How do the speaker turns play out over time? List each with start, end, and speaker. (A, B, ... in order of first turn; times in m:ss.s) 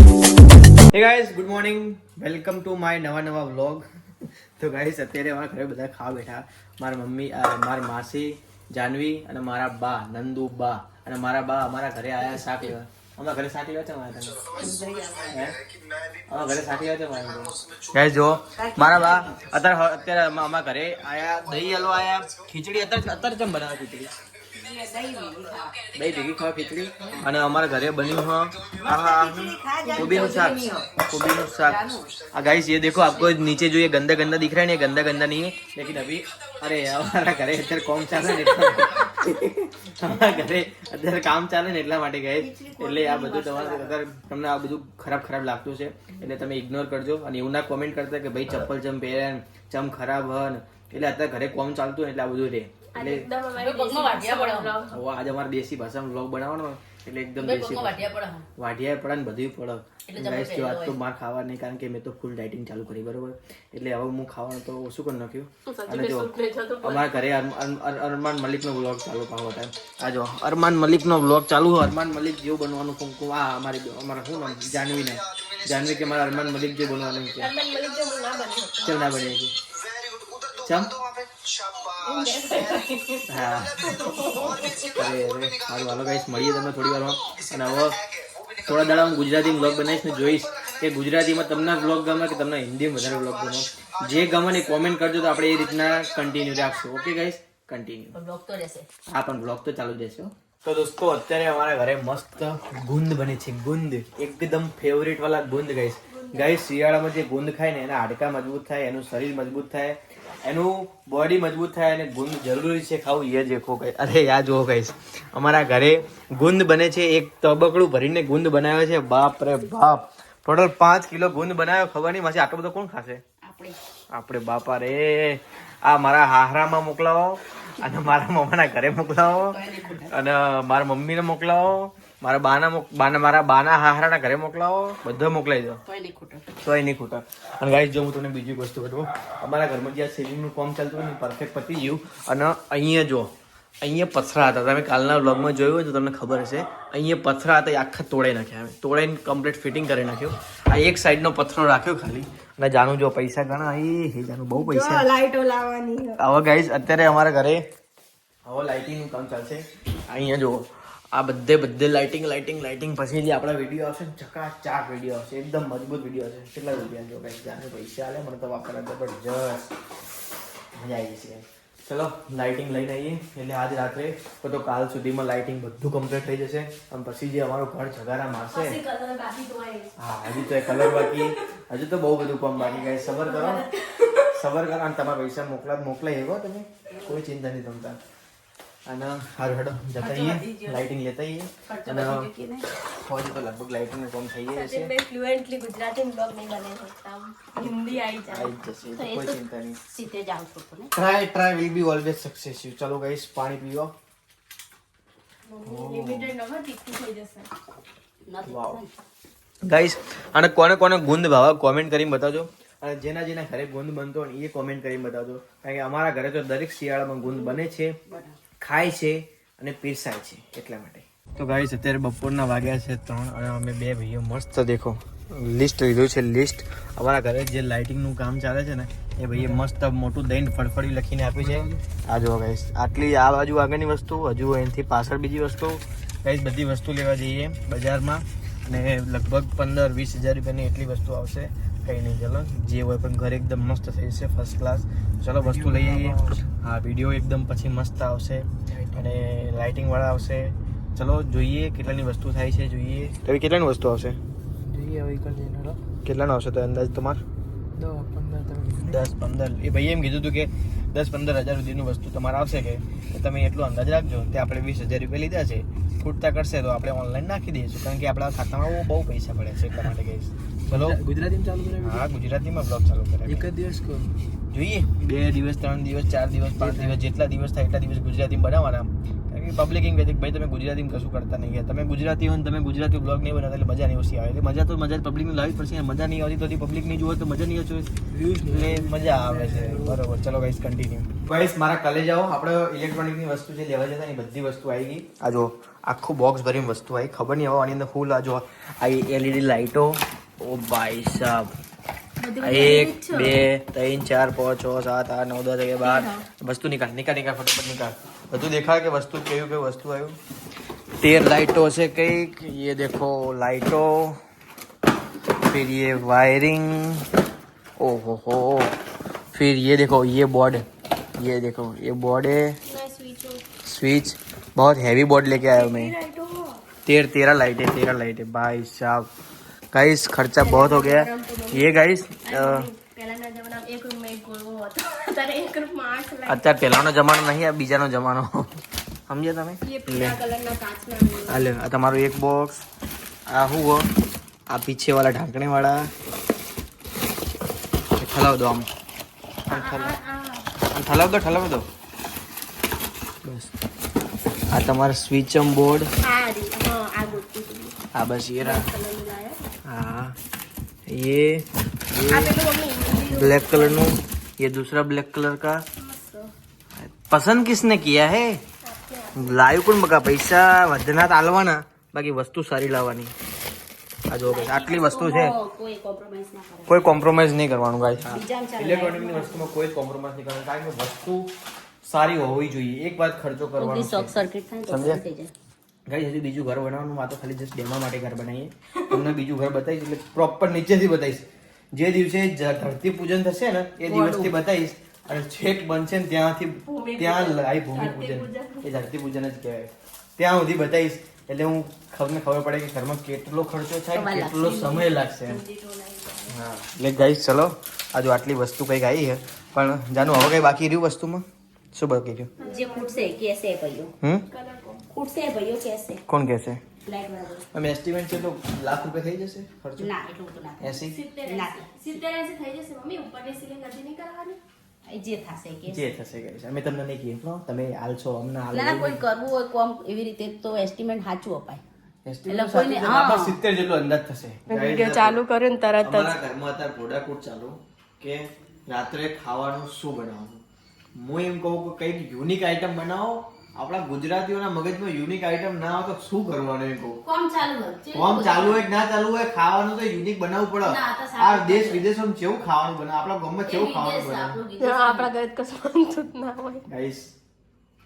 0:00.9-0:14.6 A
0:12.4-0:12.7 B
0:14.6-0:15.3 B
0:15.2-0:15.6 A
0:16.3-0:24.1 A
0:18.6-0:19.3 B
0:24.6-0:25.7 B
0:24.7-0:25.7 C
0:25.9-0:53.3 A
0:28.8-0:30.8 C
0:29.3-0:30.7 B
0:29.9-0:30.6 D
0:31.7-0:32.1 C
0:42.4-0:43.9 B
0:52.9-0:55.0 D
0:53.5-0:54.9 B
0:54.9-1:17.5 A
0:57.4-0:58.5 B
1:00.1-1:01.0 B
1:05.7-1:07.1 D
1:17.4-1:19.2 D
1:18.8-1:19.6 A
1:20.5-1:21.0 A
1:22.0-1:24.9 D
1:23.3-1:24.0 A
1:24.6-1:28.0 A
1:28.6-1:38.2 A
1:38.1-1:38.9 B
1:39.1-2:03.2 A
1:46.1-1:46.6 D
2:03.4-2:03.8 B
2:04.1-2:15.8 A
2:09.2-2:10.2 B
2:15.8-2:16.5 B
2:16.6-2:35.1 A
2:34.5-2:36.2 D
2:36.2-2:37.6 A
2:38.4-2:49.7 A
2:50.7-2:58.8 A
2:58.5-3:01.4 D
3:00.0-3:03.6 A
3:03.1-3:04.3 D
3:04.3-3:08.0 A
3:06.9-3:07.2 B
3:08.9-3:12.3 A
3:10.0-3:10.8 B
3:11.6-3:12.7 B
3:12.8-3:14.9 A
3:14.5-3:18.5 D
3:17.6-3:19.8 A
3:18.9-3:20.9 B
3:20.9-3:23.9 A
3:25.5-3:27.5 D
3:25.6-3:26.3 A
3:28.2-3:28.9 B
3:28.4-3:28.8 A
3:29.6-3:37.9 A
3:37.2-3:38.4 B
3:38.6-4:14.2 A
4:05.4-4:06.5 C
4:08.7-4:09.0 C
4:14.6-4:15.8 C
4:16.0-4:17.2 A
4:17.7-4:19.0 C
4:18.8-4:31.0 A
4:30.7-4:32.0 C
4:31.8-4:33.5 A
4:33.3-4:34.2 C
4:34.5-5:01.5 A
4:36.6-4:36.9 C
4:48.2-4:50.0 C
5:02.2-5:03.4 D
5:02.4-5:10.2 A
5:05.8-5:06.2 D
5:11.0-5:14.2 A
5:15.4-5:17.1 A
5:17.8-5:18.8 A
5:19.3-5:20.6 A
5:21.2-5:22.6 A
5:22.6-5:23.4 D
5:23.6-5:25.9 A
5:25.5-5:26.6 D
5:26.8-5:29.1 A
5:29.7-5:32.7 A
5:30.4-5:36.5 D
5:36.2-5:40.2 A
5:39.6-5:41.5 D
5:41.3-5:42.6 A
5:43.3-5:43.9 A
5:44.5-5:45.9 A
5:48.0-5:48.7 A
5:49.5-5:49.9 A
5:49.5-5:50.5 D
5:50.7-5:51.7 A
5:53.2-5:53.5 A
5:54.5-5:55.9 A
5:56.0-5:57.8 D
5:57.9-5:58.7 A
5:58.4-5:59.4 D
5:59.6-6:00.2 A
6:00.9-6:02.3 A
6:02.1-6:03.9 D
6:03.1-6:05.6 A
6:05.8-6:06.3 D
6:06.8-6:08.4 A
6:08.6-6:09.4 D
6:09.2-6:13.1 A
6:14.1-6:15.3 A
6:14.2-6:16.9 B
6:16.7-6:24.1 A
6:18.1-6:19.5 B
6:23.6-6:25.3 B
6:24.7-6:25.0 A
6:25.9-6:45.4 A
6:33.8-6:34.3 B
6:36.6-6:38.7 D
6:43.9-6:44.9 B
6:45.1-6:46.4 D
6:46.3-6:52.3 A
6:52.4-6:53.2 D
6:52.4-6:53.9 B
6:54.3-6:54.8 D
6:54.9-6:56.0 B
6:56.1-6:56.6 A
6:56.9-6:57.5 B
6:57.5-6:59.9 A
6:59.8-7:00.7 B
7:00.6-7:00.9 A
7:00.8-7:04.4 D
7:01.2-7:02.0 B
7:04.8-7:05.8 B
7:05.7-7:09.0 A
7:08.5-7:11.6 B
7:12.0-7:15.2 A
7:12.3-7:13.4 B
7:14.5-7:16.2 D
7:15.8-7:20.4 A
7:21.0-7:27.0 A
7:27.0-7:28.7 B
7:27.9-7:34.4 A
7:30.6-7:31.9 B
7:33.4-7:35.1 B
7:34.6-7:36.6 D
7:36.7-7:37.1 A